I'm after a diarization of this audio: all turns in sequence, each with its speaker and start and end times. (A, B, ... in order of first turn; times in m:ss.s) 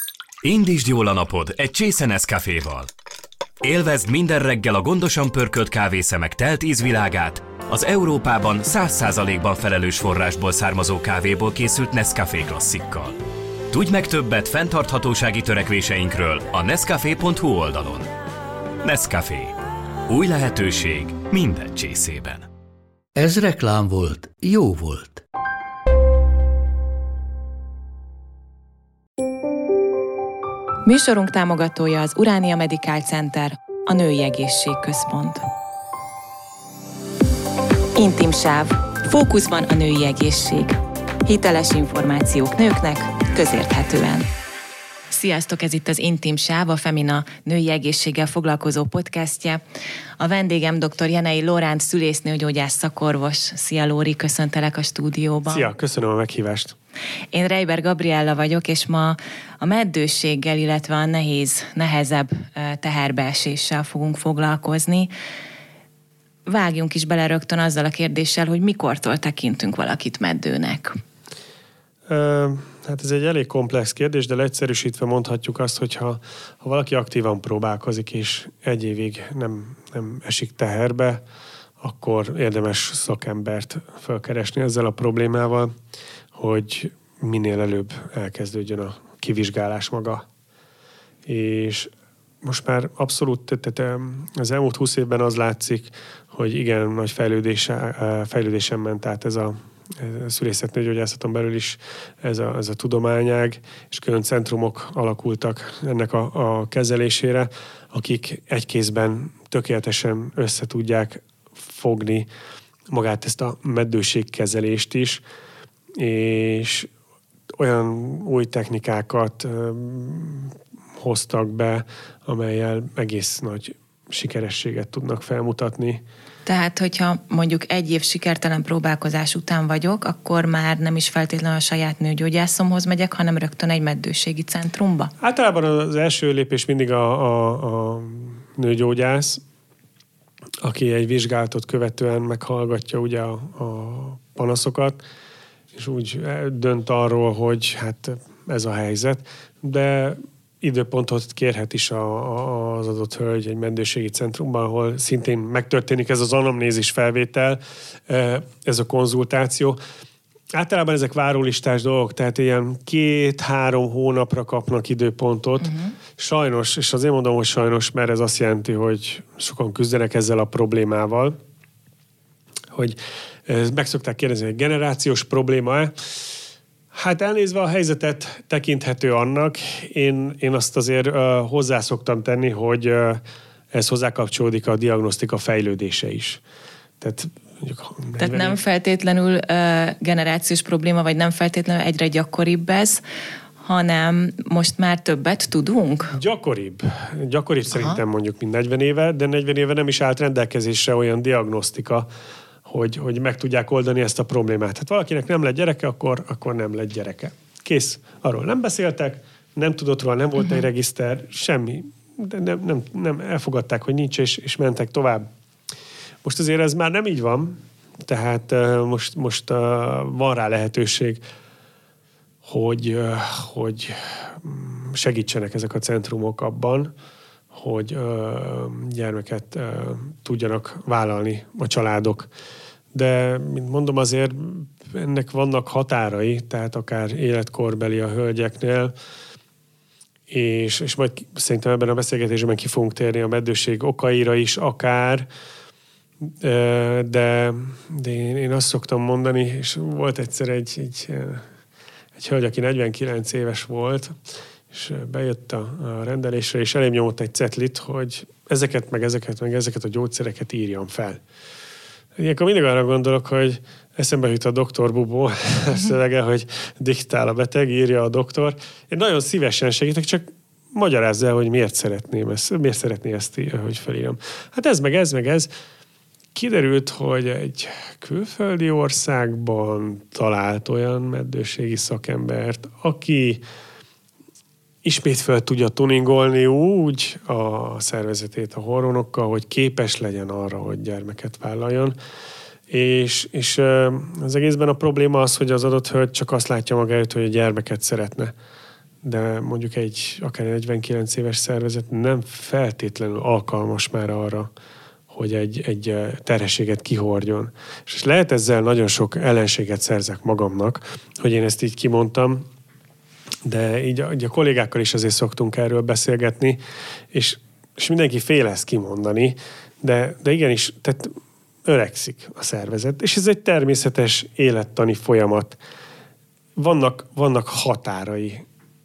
0:00.4-0:02.9 A
0:03.6-0:13.2 A
0:13.7-0:18.1 A
0:18.8-0:19.5 A
0:20.1-0:22.5 A
0:23.1-0:25.2 B
0:30.8-0:35.4 C
0:37.9-0:44.3 C
0:45.1-0:49.6 C
0:50.2-0:55.7 C
0:55.4-0:56.8 D
0:57.3-1:05.1 C
1:06.5-1:11.0 C
1:12.1-1:21.2 D
1:21.8-1:25.7 D
1:26.3-1:30.2 D
1:31.2-1:52.3 D
1:52.9-1:55.2 D
1:56.0-1:56.9 D
1:57.6-2:06.0 D
2:06.4-2:15.1 C
2:15.2-2:19.4 D
2:20.6-2:25.0 D
2:25.7-2:39.8 D
2:40.5-2:51.4 D
2:45.6-2:45.9 C
2:52.7-2:55.9 D
2:56.9-3:03.2 D
3:03.7-3:06.4 D
3:07.0-3:08.6 D
3:08.2-3:13.0 C
3:13.6-3:16.1 C
3:16.1-3:22.1 D
3:22.6-3:35.3 D
3:36.2-3:41.2 D
3:42.4-3:46.9 D
3:47.5-3:52.3 D
3:52.9-3:58.9 D
4:00.3-4:05.3 D
4:06.3-4:11.4 D
4:12.2-4:14.2 D
4:14.7-4:21.2 D
4:22.2-4:35.5 D
4:36.3-4:43.4 D
4:44.8-4:51.9 D
4:52.7-4:58.3 D
4:59.0-5:04.5 D
5:05.1-5:12.5 D
5:13.4-5:16.6 D
5:17.1-5:21.1 D
5:21.6-5:25.6 D
5:26.6-5:28.4 D